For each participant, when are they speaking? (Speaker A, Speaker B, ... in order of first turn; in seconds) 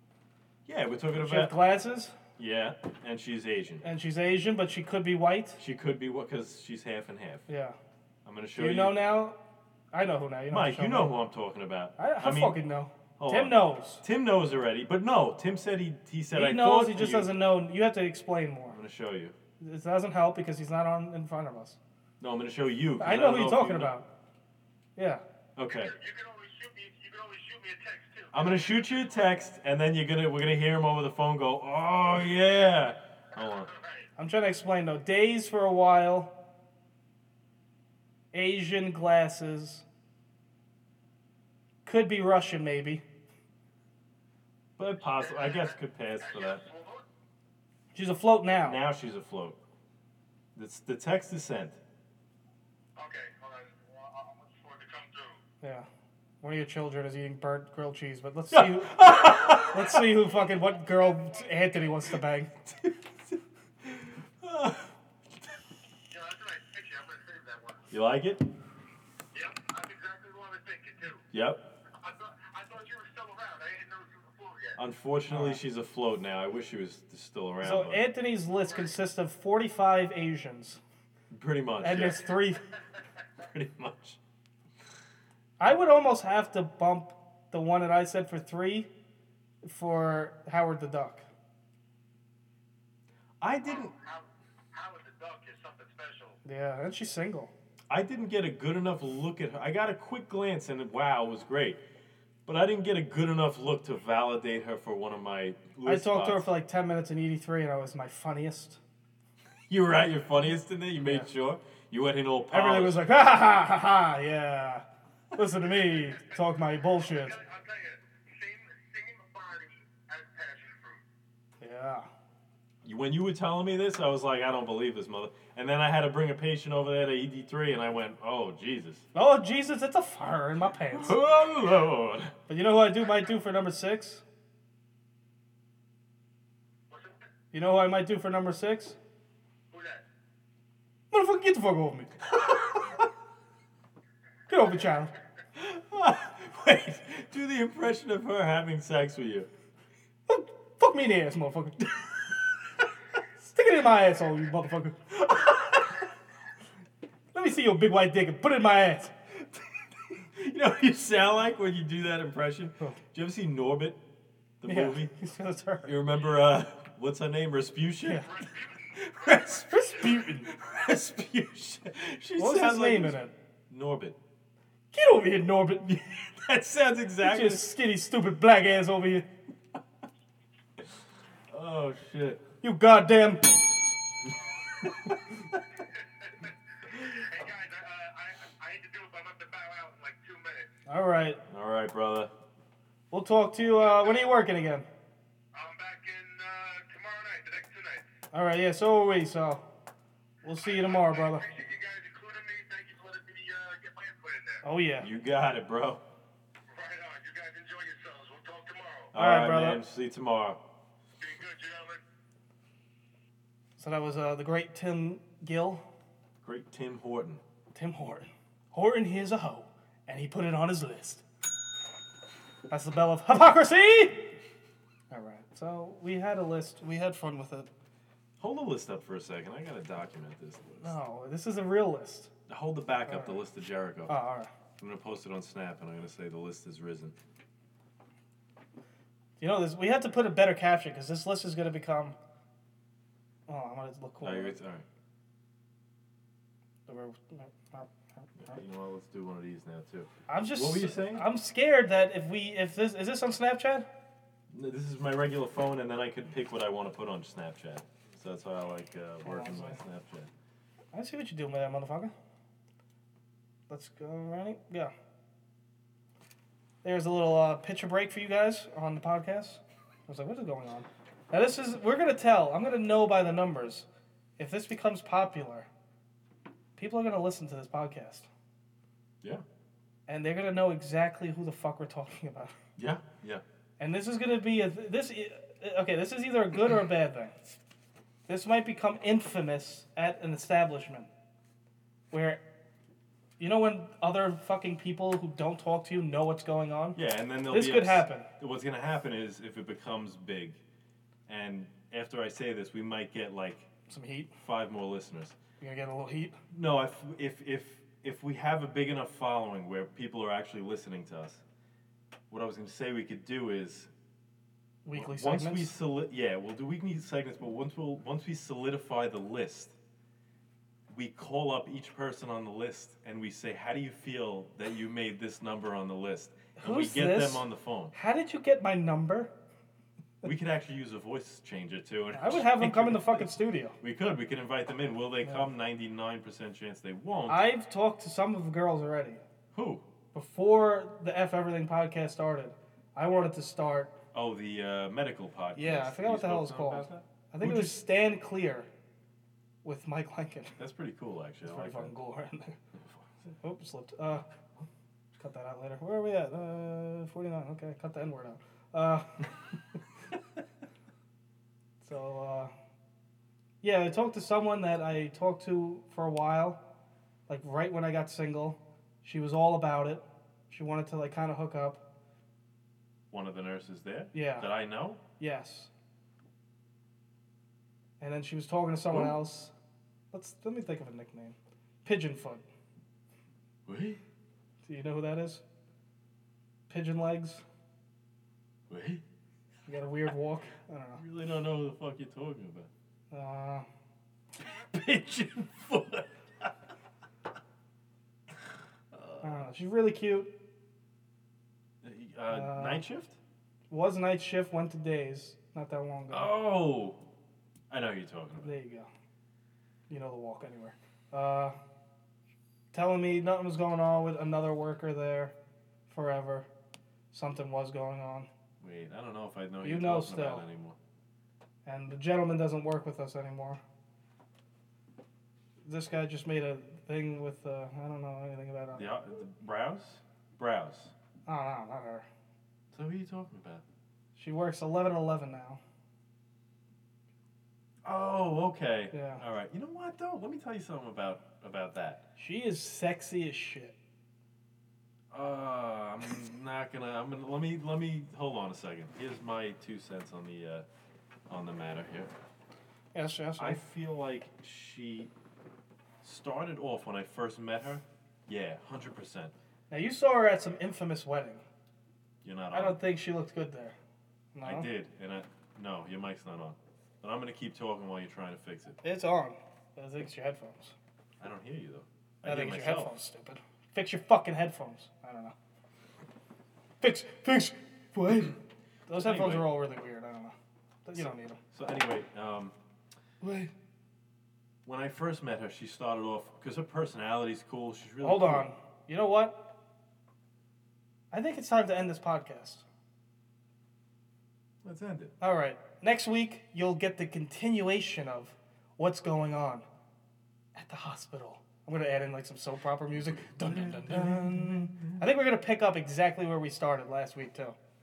Speaker A: 0.7-1.6, 2.4-3.8, 5.6-7.5, 8.2-9.0, 10.5-12.6, 13.2-17.3, 18.7-19.4, 22.2-23.9, 25.6-25.9, 28.3-33.7, 44.8-46.6, 48.7-49.6, 50.5-51.8, 58.5-60.0, 62.7-62.9, 63.8-64.9, 67.9-68.4, 71.3-71.6, 74.8-78.0, 81.3-82.2, 83.4-84.2, 93.4-93.9, 97.9-101.8, 102.5-106.5, 109.7-113.0, 122.8-129.1, 130.9-132.3, 145.6-149.5, 160.3-164.0, 164.6-165.1, 165.8-168.4, 168.9-174.2, 175.8-177.7, 181.5-182.4, 184.8-185.6, 186.9-187.2, 191.5-192.3, 205.0-206.0, 209.1-210.6, 216.4-217.4, 228.4-230.9, 232.5-234.1, 234.8-237.1, 244.2-244.8, 248.4-251.2, 254.5-260.3, 282.8-283.4, 296.9-300.6, 301.3-303.7, 304.4-305.4, 306.5-311.4, 312.3-313.9, 314.9-319.7, 320.9-327.9, 330.2-337.4, 339.5-339.9, 344.1-347.8, 350.6-351.9, 352.7-353.1, 373.1-375.0, 383.7-384.0, 388.7-389.0, 391.0-392.7, 394.5-396.5, 398.9-399.4, 401.8-403.2, 406.1-407.0, 407.7-408.5, 418.6-420.8, 428.7-430.9, 432.7-433.6, 437.8-442.0, 445.1-450.6, 451.3-452.1, 453.4-455.1, 456.0-459.3, 462.2-462.8, 464.4-468.8, 471.2-472.9, 478.9-479.5, 481.0-482.5, 484.6-488.5, 494.6-495.1, 503.3-505.0
Speaker B: 1.2-2.1, 3.8-5.6, 7.5-7.8, 8.6-9.4, 9.9-11.1, 12.0-14.0, 16.3-18.8, 19.6-21.8, 23.0-24.1, 24.9-25.2, 34.2-36.3, 38.3-39.8, 41.9-43.0, 47.9-48.8, 56.4-59.0, 59.6-62.6, 75.3-75.6, 77.6-80.8, 81.8-82.6, 85.6-88.9, 89.6-91.3, 96.5-97.5, 105.8-108.8, 111.0-111.3, 112.5-114.8, 115.4-117.4, 121.6-122.1, 129.1-131.2, 132.5-134.2, 137.5-138.9, 141.1-142.2, 144.5-145.1, 150.3-151.8, 153.4-156.0, 157.3-159.4, 164.6-165.9, 169.6-170.5, 172.4-173.3, 174.9-175.9, 177.2-179.3, 182.6-183.6, 190.9-191.4, 193.1-194.9, 198.3-199.6, 200.4-201.4, 204.6-205.1, 209.1-209.8, 213.8-215.8, 217.7-221.2, 222.7-224.3, 225.1-227.7, 230.8-232.3, 233.1-233.4, 234.1-234.5, 239.4-242.2, 243.5-244.6, 246.9-248.6, 250.3-253.9, 259.2-259.8, 260.9-262.1, 263.7-264.9, 266.8-273.9, 274.4-275.7, 276.8-278.3, 280.1-282.5, 283.8-287.3, 288.3-291.1, 292.1-292.4, 293.4-298.3, 303.9-304.3, 305.6-306.4, 314.9-315.7, 326.6-329.3, 332.1-333.8, 335.2-335.5, 337.3-339.2, 340.1-343.9, 345.6-348.7, 349.6-350.6, 351.4-352.6, 353.4-354.2, 355.2-359.3, 361.8-362.5, 363.6-366.6, 367.3-371.8, 374.1-374.5, 375.2-375.7, 378.0-379.5, 380.1-382.4, 384.6-385.4, 386.7-387.4, 389.7-391.0, 393.1-393.7, 399.2-400.3, 402.3-402.8, 403.7-406.3, 408.4-408.9, 409.9-411.6, 412.7-415.3, 415.9-416.5, 417.1-418.3, 419.6-420.4, 421.7-423.6, 425.6-428.9, 431.3-432.1, 434.2-435.6, 438.9-439.2, 442.2-443.7, 452.9-453.6, 459.7-461.4, 462.5-463.7, 464.4-464.7, 468.8-470.7, 472.2-475.3, 476.8-478.4, 478.9-480.4, 480.9-481.4, 483.2-483.5, 488.0-489.4, 491.1-492.6, 495.2-499.6, 500.6-507.6
Speaker C: 25.7-29.2, 33.4-34.1, 45.2-47.1, 53.0-55.4, 60.3-62.1, 66.1-67.9, 69.3-71.2, 72.0-74.8, 78.6-79.0, 93.6-96.4, 117.1-121.0, 136.9-137.2, 139.7-140.1, 168.1-170.0, 184.3-184.9, 185.8-190.7, 195.5-198.1, 200.6-204.6, 206.7-209.1, 211.2-212.0